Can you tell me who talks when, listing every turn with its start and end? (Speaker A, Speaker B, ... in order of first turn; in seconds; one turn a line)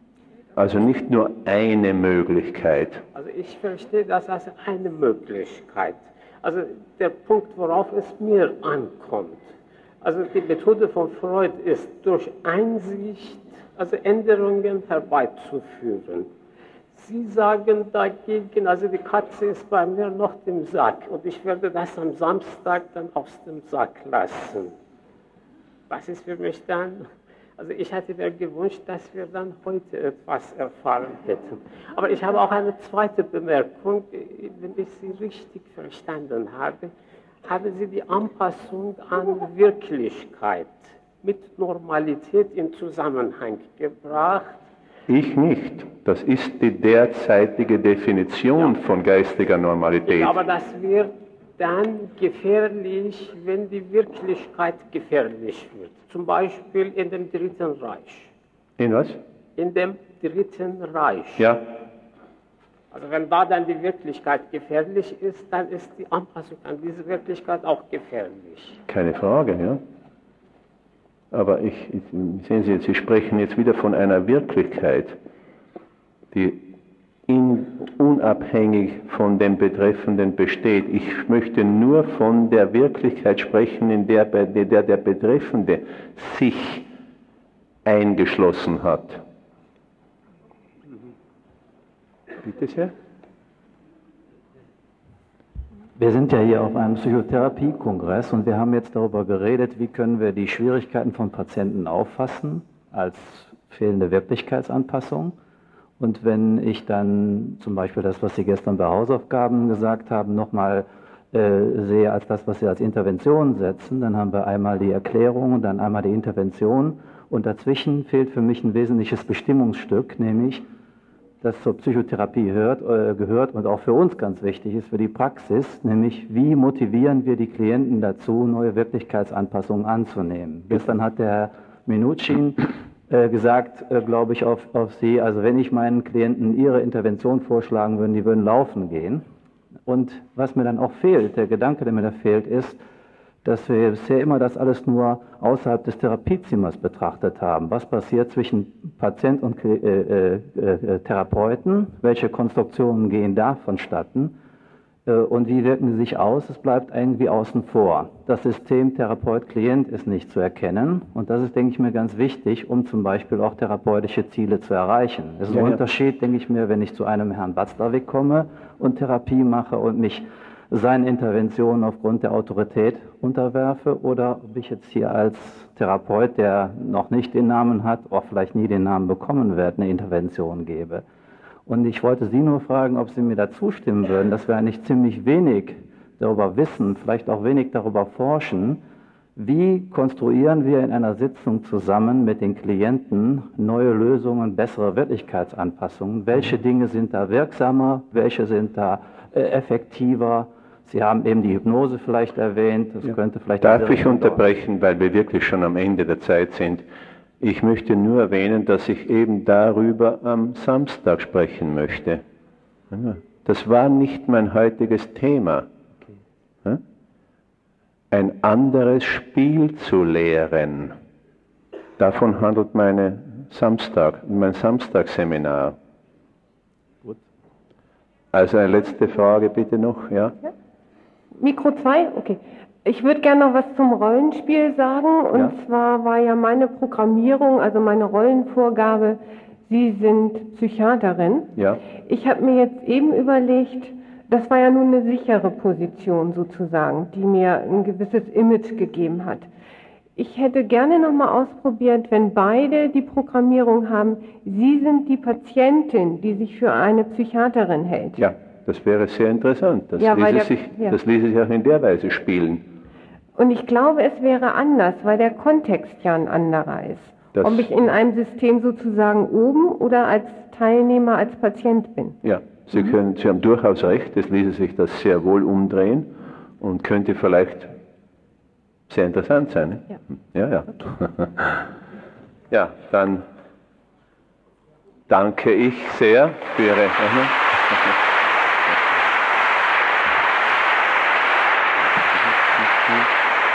Speaker A: 0.6-3.0
Speaker B: 3.1-16.3
Speaker B: 16.9-24.7
Speaker B: 25.9-36.9
Speaker B: 37.4-44.6
Speaker A: 45.1-50.4
Speaker B: 50.0-58.3
Speaker A: 58.8-59.2
Speaker B: 59.6-61.5
Speaker A: 61.4-61.6
Speaker B: 62.9-68.8
Speaker A: 68.9-69.8
Speaker A: 71.3-75.2
Speaker A: 76.3-76.7
Speaker A: 77.3-86.9
Speaker A: 87.8-89.2
Speaker A: 92.4-92.9
Speaker C: 96.0-105.3
Speaker C: 106.0-120.6
Speaker C: 121.4-139.2
Speaker C: 139.8-142.8
Speaker C: 143.4-154.3
Speaker C: 155.1-181.0
Speaker A: 165.5-165.8
Speaker C: 181.7-188.8
Speaker C: 189.3-204.4
Speaker A: 203.0-206.8
Speaker A: 207.4-212.2
Speaker A: 212.9-215.7
Speaker A: 218.1-220.9
Speaker A: 222.0-225.8
Speaker A: 228.3-230.4
Speaker D: 231.3-249.5
Speaker A: 241.6-241.8
Speaker D: 250.2-258.2
Speaker A: 258.1-262.6
Speaker D: 259.9-261.0
Speaker D: 263.4-272.2
Speaker A: 267.3-267.7
Speaker A: 272.2-277.7
Speaker A: 278.9-281.6
Speaker A: 282.5-283.2
Speaker A: 285.1-287.9
Speaker A: 291.9-293.1